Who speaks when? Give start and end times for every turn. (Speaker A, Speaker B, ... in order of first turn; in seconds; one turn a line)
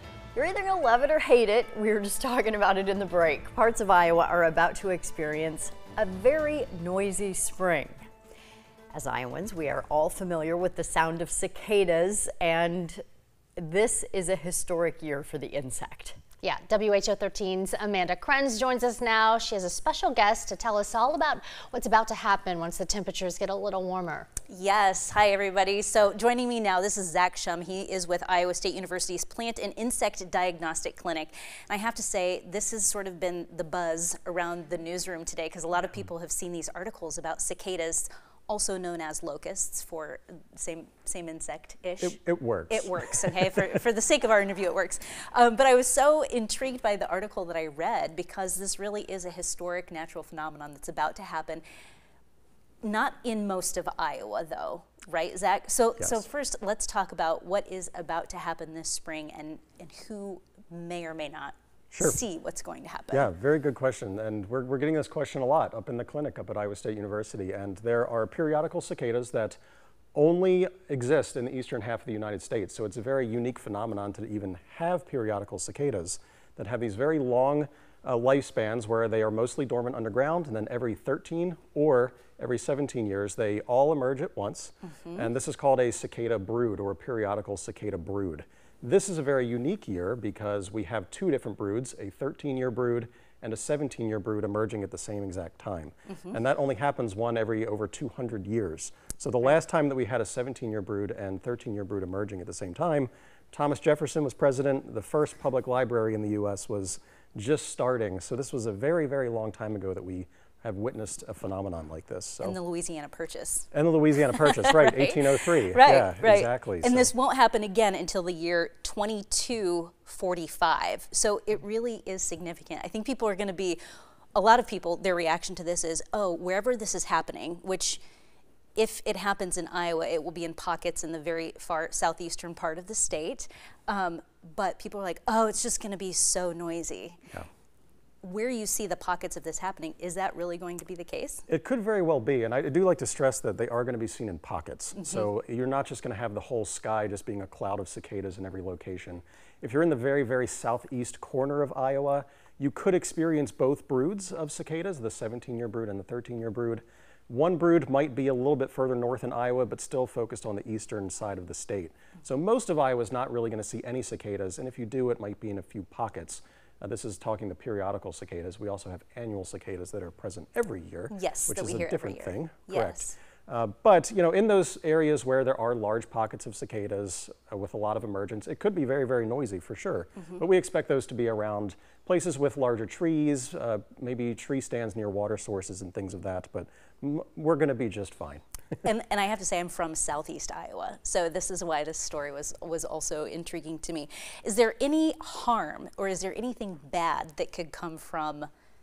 Speaker A: 0.3-8.0
Speaker A: 8.9-13.0
Speaker A: 13.6-16.2
Speaker B: 16.4-24.3
Speaker C: 24.5-51.6
Speaker D: 42.0-43.8
Speaker C: 52.8-63.3
Speaker D: 63.1-69.6
Speaker D: 70.1-112.6
Speaker C: 112.4-113.7
Speaker D: 113.7-117.1
Speaker C: 114.3-123.8
Speaker C: 124.3-128.0
Speaker C: 128.8-137.2
Speaker C: 138.2-141.4
Speaker D: 141.5-188.4
Speaker C: 171.1-173.1
Speaker C: 188.8-198.5